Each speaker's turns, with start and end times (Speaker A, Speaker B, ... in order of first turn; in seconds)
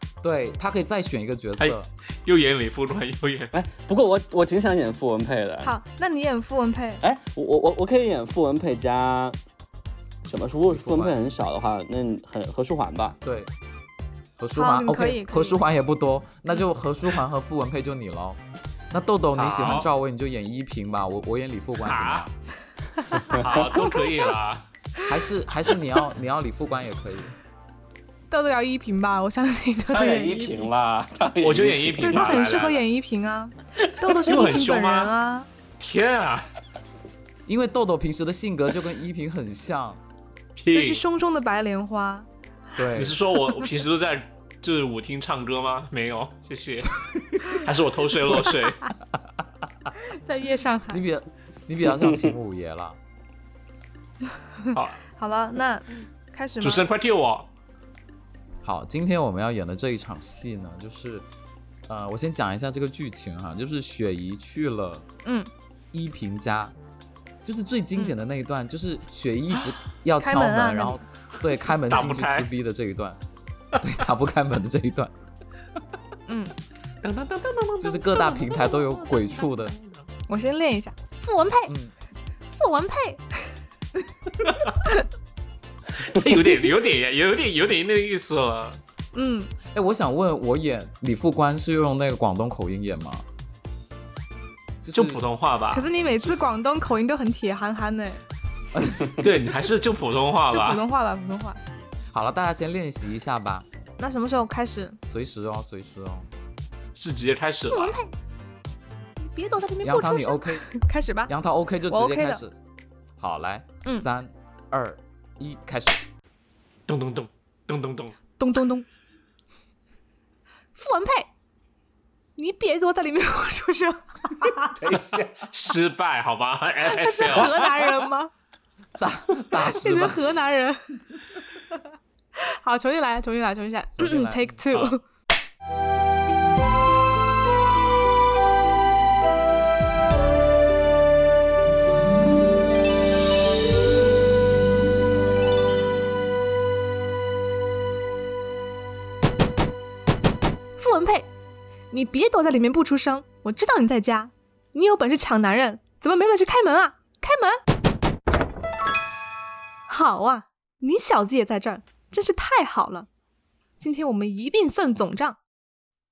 Speaker A: 0.2-1.9, 10.7-11.2, 13.2-13.5, 14.4-18.4, 18.9-22.3, 25.1-27.3, 37.5-40.0, 42.8-43.2, 50.9-53.0, 58.6-61.2, 61.9-65.0, 65.9-66.7, 67.4-73.2, 73.8-75.1, 77.8-79.7, 81.7-81.9, 89.7-93.2, 94.8-95.2, 102.1-103.7, 105.1-106.3, 109.8-110.7, 111.3-112.5, 113.2-116.0, 129.0-130.2, 134.0-134.6
Speaker B: 1.6-3.6, 19.4-19.9, 21.8-22.3, 23.2-24.6, 31.4-32.8, 34.2-35.1, 35.8-36.5, 40.6-41.0, 42.9-48.9, 54.7-55.0, 56.6-57.5, 71.7-72.5, 77.0-80.0, 85.9-88.8, 94.9-95.9, 99.0-100.8, 107.0-108.0, 116.9-118.1, 124.8-127.5
Speaker C: 3.5-5.7, 7.0-9.4, 10.2-13.2, 23.3-23.8, 29.9-32.4, 51.9-52.3, 99.0-99.2, 124.8-125.3
Speaker D: 5.6-7.0, 14.5-15.6, 28.3-30.7, 32.0-35.5, 40.7-42.3, 50.1-51.0, 54.7-56.8, 70.2-71.0, 76.3-76.5, 80.3-81.7, 82.5-83.5, 89.1-89.5, 95.7-98.2, 100.5-101.6, 104.0-105.0, 107.7-108.1, 109.2-111.3, 111.9-112.4, 118.4-118.8, 120.7-121.3, 122.4-124.8, 126.8-128.3, 129.6-130.8, 132.3-135.0, 150.8-151.3, 151.9-157.6, 159.9-163.1, 163.8-165.4